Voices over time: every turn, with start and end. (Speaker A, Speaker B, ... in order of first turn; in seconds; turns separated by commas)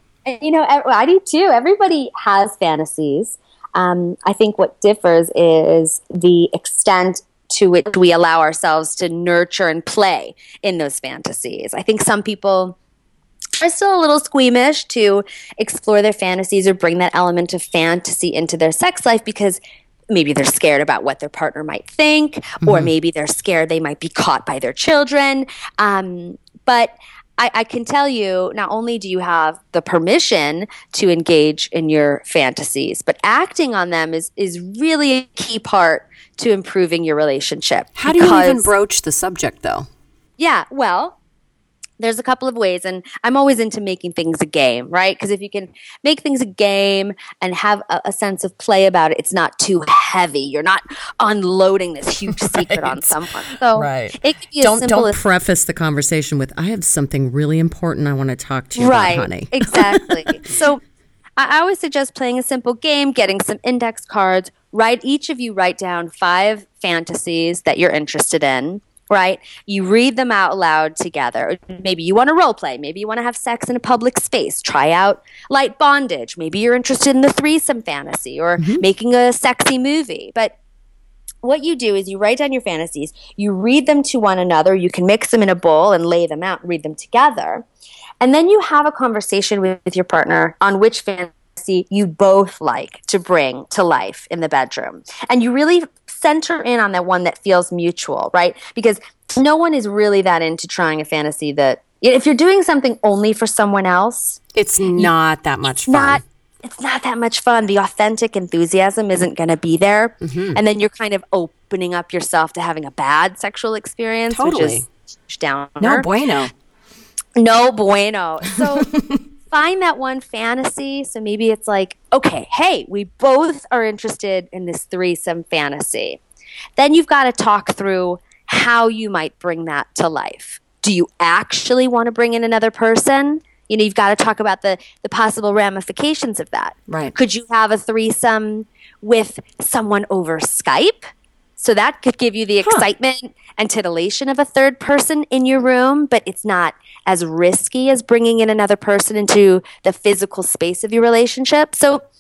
Speaker A: 0.2-12.8, Speaker A: 13.6-38.7, Speaker B: 22.6-22.9, Speaker B: 38.0-39.9, Speaker A: 40.4-41.2, Speaker A: 42.0-55.2, Speaker B: 52.3-60.5, Speaker A: 58.8-60.8, Speaker A: 61.4-80.5, Speaker B: 78.6-78.8, Speaker A: 81.4-87.6, Speaker A: 88.2-104.4, Speaker B: 104.5-106.2, Speaker A: 105.8-116.1, Speaker B: 110.2-110.6, Speaker B: 114.3-114.8, Speaker B: 115.8-116.5, Speaker A: 117.3-118.9, Speaker B: 118.5-119.2, Speaker A: 119.5-126.2, Speaker A: 126.8-141.1, Speaker B: 136.9-137.1, Speaker A: 141.6-152.0